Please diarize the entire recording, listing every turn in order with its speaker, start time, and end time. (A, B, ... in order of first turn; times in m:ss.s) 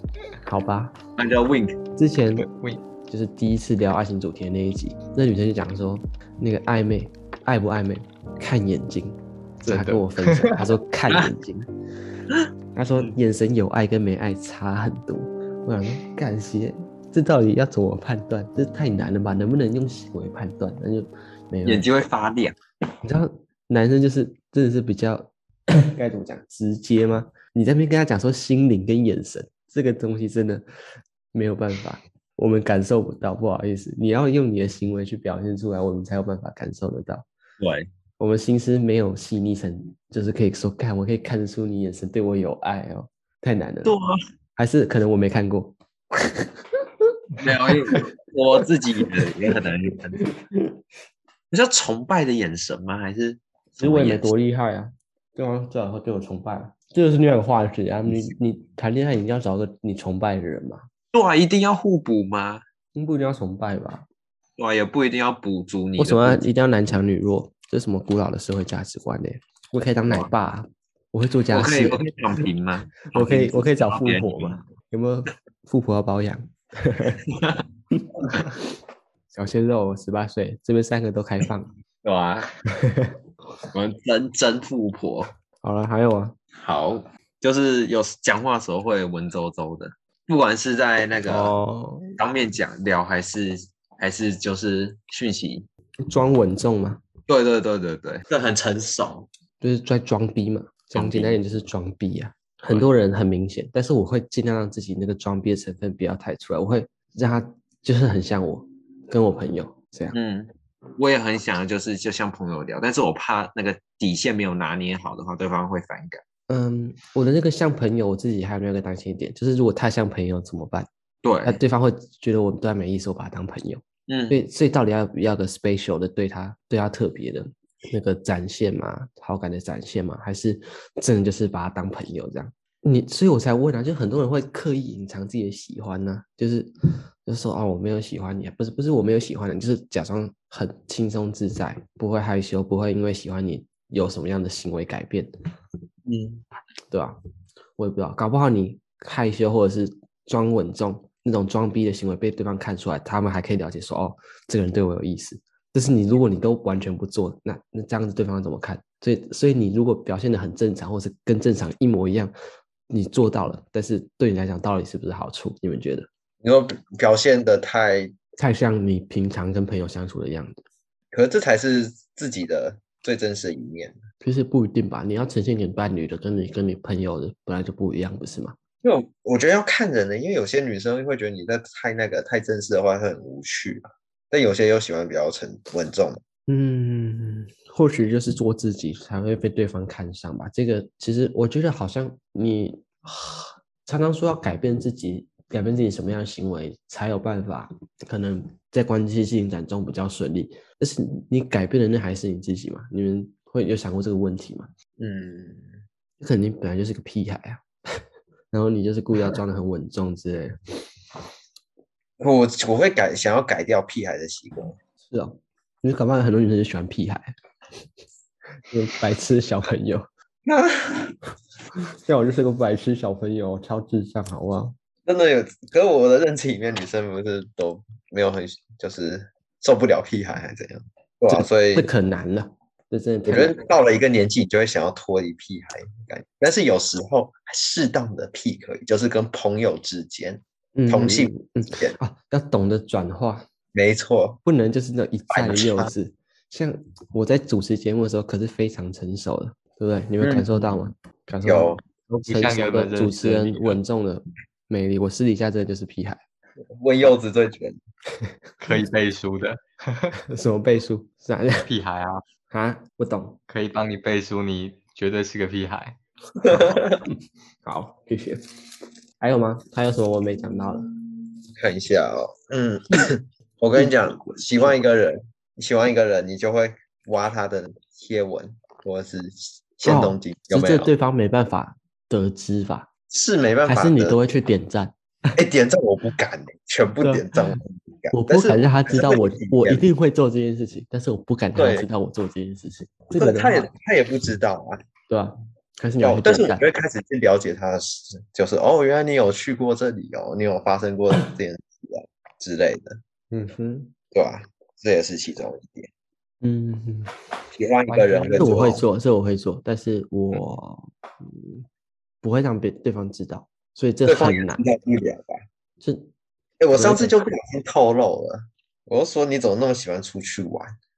0:00.4-0:01.0 A
0:01.2-0:01.8 B
0:02.0-0:02.5 A
0:02.4-0:02.8 C
0:03.1-0:11.7 A
0:09.6-0:10.6 C
0:12.7-0:21.9 A
0:21.6-0:22.6 B
0:23.0-0:30.6 A
0:31.3-0:37.3 A
0:37.6-0:37.9 B
0:38.2-0:43.9 A
0:43.8-0:44.2 B
0:44.6-0:46.5 A
0:47.4-0:50.2 B
0:50.2-0:50.7 A
0:51.5-0:54.3 B
0:53.8-1:00.9 A
1:01.1-1:02.6 B
1:02.9-1:04.0 A
1:04.6-1:06.4 B
1:06.0-1:12.0 A
1:11.5-1:14.6 B
1:13.1-1:17.2 A
1:17.3-1:17.6 B
1:17.9-1:18.6 A
1:19.3-1:21.7 A
1:22.0-1:22.5 B
1:22.8-1:23.1 A
1:23.7-1:25.3 B
1:25.6-1:26.3 A
1:26.6-1:31.5 B
1:31.2-1:32.2 A
1:32.2-1:35.7 B
1:36.0-1:37.0 A
1:37.3-1:39.3 B
1:39.6-1:50.2 A
1:40.9-1:41.4 B
1:42.6-1:42.9 B
1:50.1-1:56.2 B
1:56.5-2:00.9 A
2:01.2-2:01.6 B
2:01.4-2:16.7 A
2:04.1-2:04.4 B
2:17.2-2:25.3 A
2:26.0-2:26.4 B
2:26.9-2:27.2 A
2:27.8-2:42.3 A
2:42.9-2:46.1 A
2:46.4-2:48.1 B
2:48.4-2:50.6 A
2:51.1-2:54.0 B
2:54.2-2:58.6 A
2:58.8-3:06.2 B
3:06.5-3:24.7 A
3:25.0-3:25.8 B
3:26.2-3:27.6 A
3:28.5-3:30.6 A
3:32.2-3:34.8 B
3:35.1-3:37.3 A
3:38.7-3:40.1 A
3:40.4-3:41.1 B
3:42.0-3:44.7 A
3:45.0-3:51.9 B
3:51.3-3:53.6 A
3:53.3-4:01.9 B
4:00.7-4:03.4 A
4:03.7-4:04.4 B
4:04.4-4:16.2 A
4:05.3-4:05.9 B
4:10.2-4:10.7 B
4:11.4-4:11.8 B
4:12.2-4:13.8 C
4:16.8-4:17.8 B
4:18.6-4:20.2 C
4:20.3-4:21.6 A
4:21.6-4:22.2 C
4:22.5-4:23.4 A
4:23.5-4:26.0 C
4:26.5-4:27.0 B
4:27.6-4:28.4 A
4:29.2-4:30.9 A
4:31.6-4:40.9 B
4:33.7-4:34.8 A
4:39.8-4:42.9 A
4:43.1-4:44.2 B
4:43.6-4:45.0 A
4:45.4-4:49.8 B
4:47.0-4:47.4 A
4:48.1-4:53.7 A
4:51.6-4:51.9 B
4:53.2-4:54.8 B
4:55.1-4:56.7 A
4:56.0-5:03.0 B
5:03.3-5:03.9 A
5:04.1-5:05.9 B
5:06.4-5:07.1 A
5:07.6-5:08.8 B
5:07.9-5:08.5 C
5:08.4-5:11.6 A
5:12.2-5:14.6 A
5:14.0-5:15.4 B
5:15.8-5:16.1 A
5:16.6-5:20.7 B
5:16.7-5:17.1 A